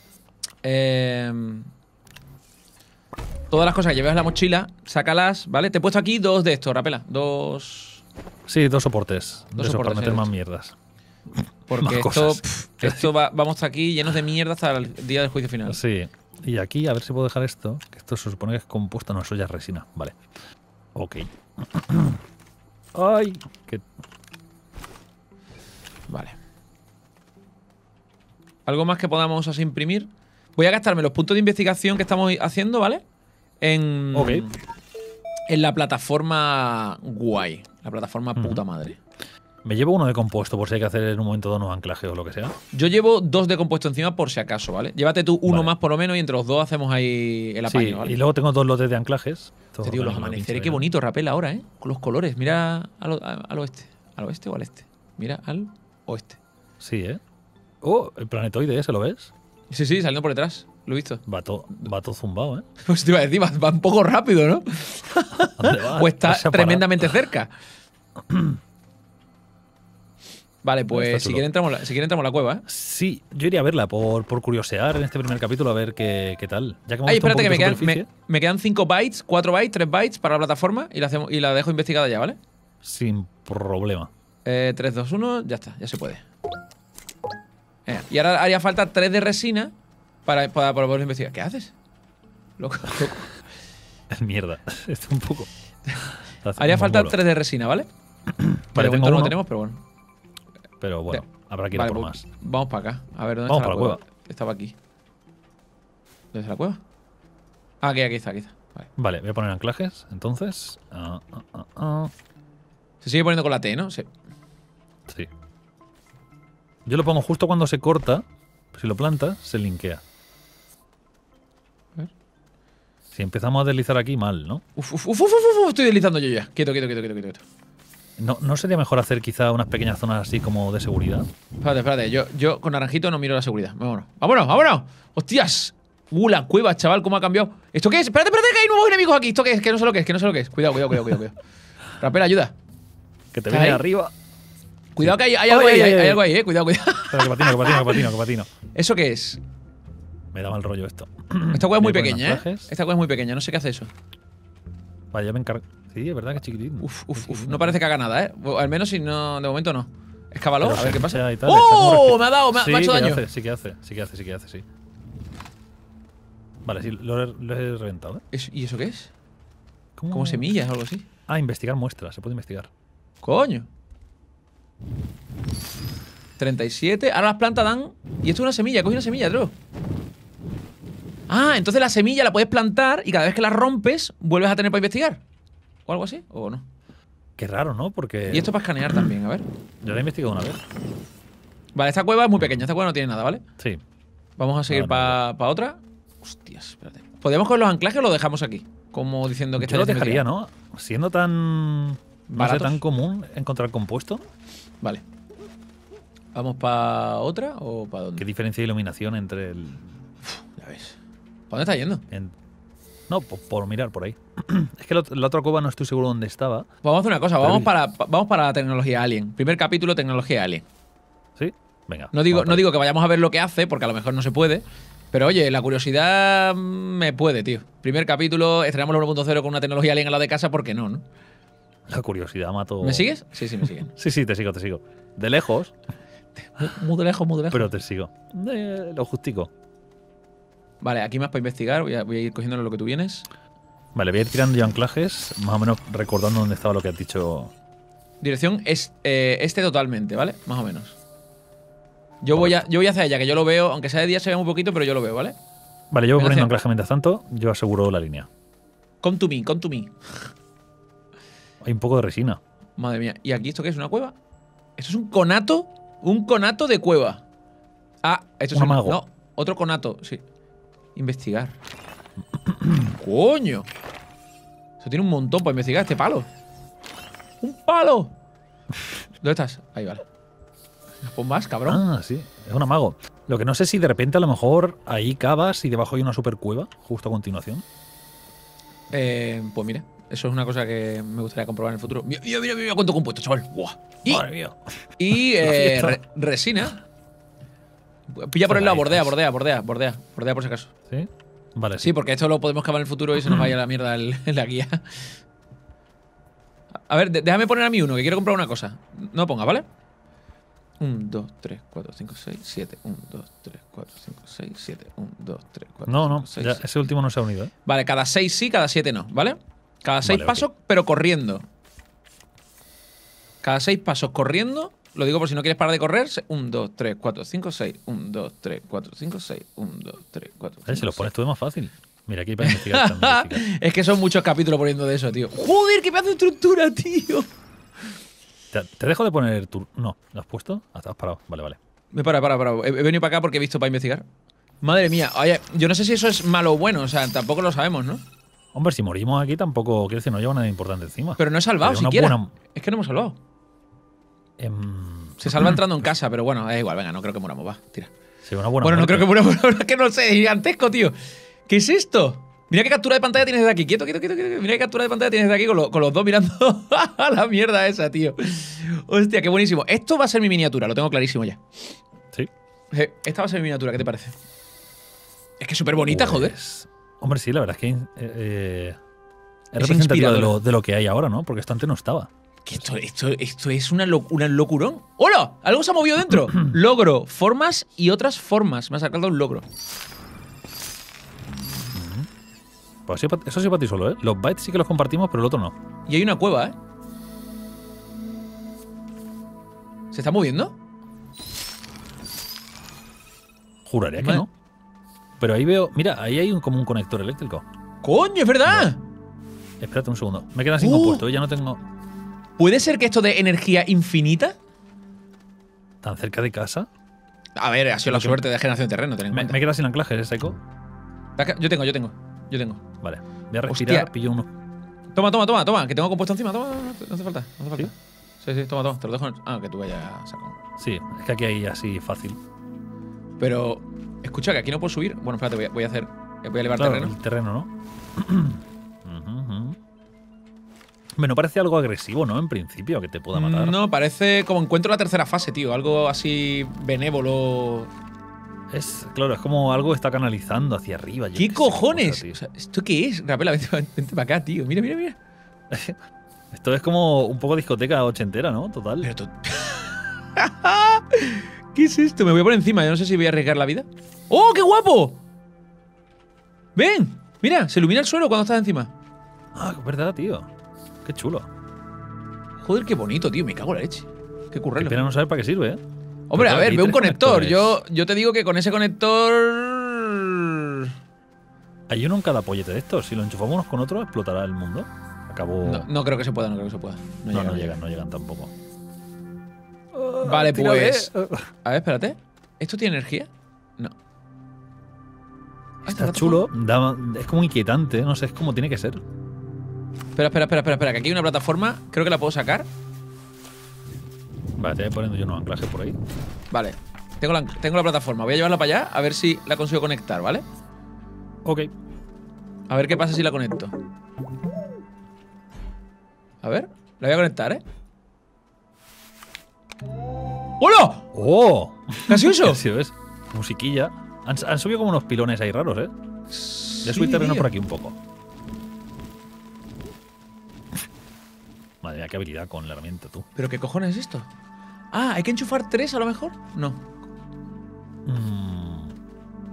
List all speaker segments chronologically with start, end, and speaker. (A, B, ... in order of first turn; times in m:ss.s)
0:00.6-0:01.7 A
0:03.5-0:08.0 A
0:08.5-0:10.8 B
0:09.5-0:10.3 A
0:11.3-0:13.1 B
0:11.7-0:15.8 A
0:15.7-0:20.2 B
0:20.9-0:22.2 B
0:22.9-0:23.8 B
0:26.1-0:26.4 A
0:28.6-0:33.0 A
0:33.6-0:34.6 A
0:34.1-0:34.4 B
0:35.5-0:39.0 A
0:38.4-0:38.6 B
0:39.6-0:42.6 B
0:42.7-0:48.2 A
0:45.4-0:45.7 B
0:47.7-0:50.9 B
0:49.8-0:56.4 A
0:56.8-0:57.2 B
0:57.8-0:59.3 B
0:59.7-1:01.9 A
1:01.2-1:02.6 B
1:02.8-1:07.5 A
1:05.6-1:07.1 B
1:08.2-1:08.6 B
1:10.6-1:12.6 A
1:10.9-1:11.4 B
1:12.6-1:18.1 B
1:17.0-1:22.4 A
1:22.8-1:24.1 B
1:24.4-1:26.2 A
1:27.9-1:29.7 A
1:30.2-1:31.7 A
1:32.6-1:33.4 A
1:34.1-1:37.2 B
1:36.6-1:37.9 A
1:38.3-1:39.4 B
1:38.7-1:39.8 A
1:40.8-1:42.2 B
1:41.1-1:44.7 A
1:43.5-1:44.0 B
1:46.3-1:46.8 A
1:47.8-1:48.9 A
1:49.0-1:52.1 B
1:53.0-1:54.1 A
1:56.8-2:00.0 B
2:03.1-2:04.6 B
2:04.8-2:07.4 A
2:08.2-2:11.3 B
2:11.6-2:21.4 A
2:22.0-2:22.5 A
2:23.3-2:24.1 B
2:23.5-2:23.8 A
2:24.9-2:28.0 A
2:25.0-2:26.2 B
2:27.1-2:28.5 B
2:28.7-2:29.4 A
2:30.3-2:32.7 B
2:31.5-2:33.9 A
2:35.1-2:37.8 B
2:36.8-2:43.2 A
2:40.6-2:44.6 B
2:46.6-2:48.2 B
2:48.3-2:49.1 A
2:50.0-2:50.5 B
2:50.1-2:51.0 A
2:51.3-2:52.7 B
2:53.2-2:53.7 A
2:56.4-2:59.5 A
3:01.3-3:05.2 A
3:05.9-3:06.6 A
3:07.4-3:09.0 B
3:08.3-3:09.5 A
3:09.8-3:10.6 B
3:11.8-3:13.4 A
3:14.4-3:20.2 A
3:14.7-3:15.2 B
3:19.6-3:24.2 B
3:22.3-3:22.8 A
3:26.3-3:28.2 A
3:28.2-3:29.9 B
3:30.6-3:31.0 A
3:31.5-3:32.0 A
3:33.1-3:36.7 B
3:36.8-3:40.6 A
3:37.4-3:37.7 B
3:41.4-3:42.6 B
3:42.1-3:51.0 A
3:51.9-3:53.1 B
3:52.8-3:53.9 A
3:53.6-3:55.7 B
3:56.4-3:57.7 A
3:57.5-3:59.5 B
4:00.8-4:03.3 A
4:03.9-4:07.5 B
4:08.2-4:11.0 A
4:12.2-4:15.3 A
4:12.3-4:12.6 B
4:15.9-4:18.3 B
4:16.2-4:16.5 A
4:19.0-4:19.9 A
4:21.6-4:22.4 B
4:22.8-4:24.1 A
4:24.8-4:27.2 A
4:28.0-4:30.2 A
4:28.5-4:29.0 B
4:31.0-4:31.5 A
4:32.3-4:33.0 B
4:33.0-4:33.7 A
4:34.8-4:36.3 A
4:37.4-4:38.1 A
4:39.2-4:40.0 A
4:41.0-4:41.8 A
4:41.7-4:47.6 B
4:48.9-4:54.3 A
4:54.0-4:56.0 B
4:55.0-4:56.8 A
4:58.1-5:00.7 A
4:58.5-4:59.1 B
5:00.9-5:01.9 B
5:01.8-5:05.1 A
5:03.2-5:03.5 B
5:06.9-5:09.6 A
5:10.8-5:16.6 A
5:15.9-5:17.5 B
5:17.6-5:21.4 A
5:20.0-5:20.4 B
5:23.4-5:31.1 A
5:30.7-5:33.4 B
5:32.4-5:37.3 A
5:38.5-5:41.6 B
5:41.9-5:44.0 A
5:44.6-5:48.0 A
5:48.5-5:52.3 B
5:51.2-5:53.2 A
5:54.4-5:55.6 B
5:55.2-5:57.9 A
5:58.2-5:59.1 B
5:58.6-6:00.9 A
6:01.5-6:11.4 A
6:12.7-6:14.1 A
6:15.4-6:16.4 A
6:15.9-6:18.8 B
6:19.5-6:20.4 A
6:19.6-6:22.1 B
6:22.4-6:29.4 A
6:31.6-6:32.1 B
6:32.9-6:35.5 B
6:35.9-6:36.5 A
6:39.9-6:40.6 A
6:43.6-6:44.3 B
6:44.0-6:44.3 A
6:45.2-6:47.4 B
6:47.8-6:48.8 A
6:48.4-6:48.7 B
6:49.6-6:51.6 B
6:50.6-6:51.0 A
6:52.4-6:54.4 A
6:55.8-6:56.7 B
6:57.4-6:59.4 A
6:57.8-6:58.2 B
6:59.1-7:00.4 B
7:01.2-7:02.6 A
7:02.8-7:04.3 B
7:03.5-7:03.9 A
7:04.9-7:10.4 A
7:10.6-7:12.2 B
7:13.2-7:16.9 A
7:16.6-7:19.6 B
7:21.0-7:23.6 B
7:23.1-7:27.7 A
7:28.5-7:32.2 B
7:31.2-7:35.0 A
7:35.5-7:35.8 B
7:36.3-7:38.9 B
7:38.8-7:45.0 A
7:46.6-7:48.7 A
7:49.3-7:50.3 B
7:50.8-7:51.3 B
7:52.4-7:54.8 A
7:54.6-7:55.6 B
7:56.1-8:00.7 A
7:56.1-7:57.6 B
8:01.7-8:05.7 B
8:05.4-8:07.6 A
8:07.1-8:08.3 B
8:09.7-8:11.3 B
8:10.0-8:10.9 A
8:11.4-8:13.7 A
8:15.6-8:16.2 A
8:15.7-8:18.8 B
8:20.0-8:22.5 A
8:24.4-8:25.8 B
8:26.3-8:30.2 A
8:31.2-8:31.5 B
8:32.5-8:33.5 A
8:36.2-8:37.4 A
8:40.4-8:40.9 A
8:40.9-8:45.7 B
8:41.9-8:42.4 A
8:46.1-8:47.3 A
8:46.6-8:47.8 B
8:51.6-8:53.1 B
8:53.2-8:54.0 A
8:54.7-8:56.6 A
8:57.8-8:58.7 B